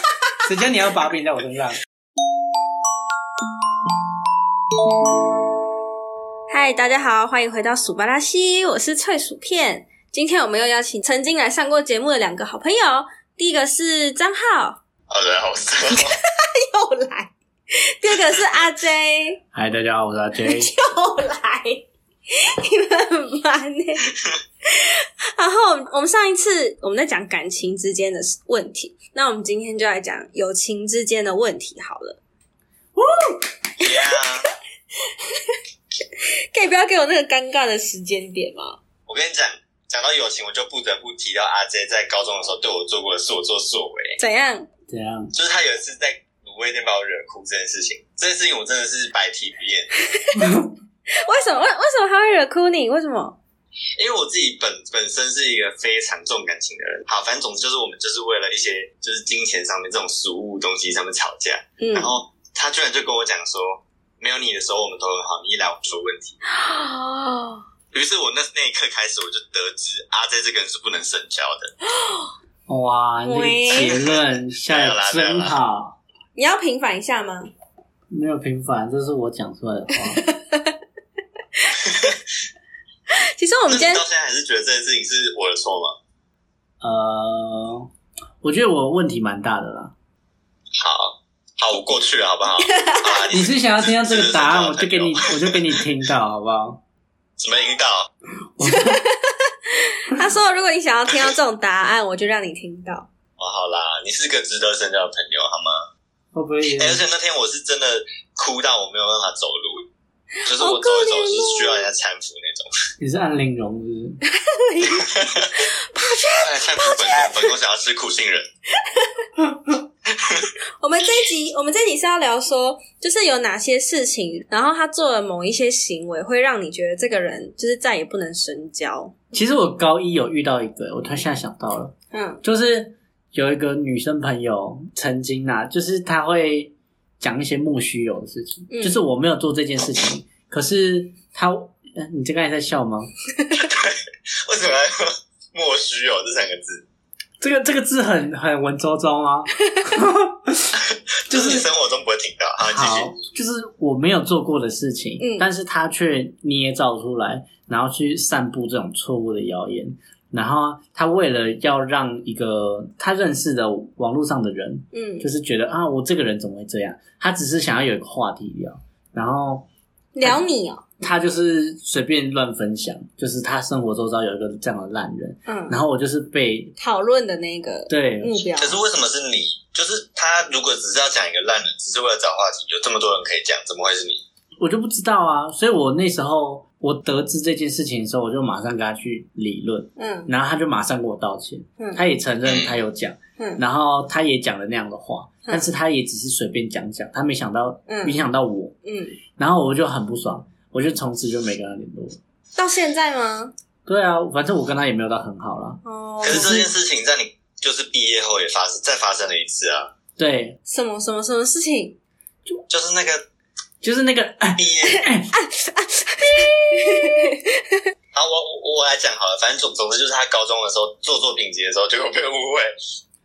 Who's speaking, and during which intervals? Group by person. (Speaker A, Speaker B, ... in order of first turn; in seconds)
Speaker A: 0.4-1.8, 19.5-20.7, 44.9-45.3, 50.4-50.7, 72.7-76.0, 78.1-80.2, 86.8-87.9, 88.4-89.9, 93.3-96.8, 98.6-99.0, 106.3-107.0, 113.0-114.2, 129.3-143.1, 147.4-151.7, 152.6-169.7, 171.0-176.7, 177.9-178.4, 184.6-198.8, 199.4-202.2, 203.9-206.7, 210.2-210.6, 213.8-215.3
Speaker B: 6.5-14.8, 15.9-17.3, 18.0-19.4, 20.4-24.1, 24.7-32.2, 33.8-34.2, 35.2-35.6, 36.5-38.8, 44.2-44.7, 50.1-50.6, 51.1-53.4, 61.8-62.2, 66.5-67.7, 72.0-72.3, 73.3-74.0, 76.3-77.5, 80.2-80.8, 81.6-82.0, 83.1-84.0, 92.6-93.2, 98.6-103.1, 110.5-111.9, 114.3-117.5, 118.9-119.2, 120.8-129.1, 132.1-132.4, 138.7-139.0, 155.2-155.5, 164.9-165.3, 170.1-170.8, 175.5-175.8, 176.8-178.8, 190.0-190.3, 197.9-198.2, 198.8-199.2, 202.6-203.5, 205.8-206.7, 210.7-212.0, 215.0-217.8
Speaker C: 15.1-16.1, 33.8-34.5, 39.1-44.2, 45.3-49.9, 54.0-66.4, 67.9-71.7, 73.8-75.6, 81.8-82.2, 83.7-86.0, 90.8-95.8, 97.4-98.1, 103.4-105.9, 106.8-109.9, 110.5-112.7, 114.8-115.5, 116.3-118.5, 120.1-120.5, 143.6-146.8, 150.8-153.2, 178.6-184.2, 192.4-192.7, 206.2-209.9, 212.7-213.2, 214.6-215.1, 218.1-222.7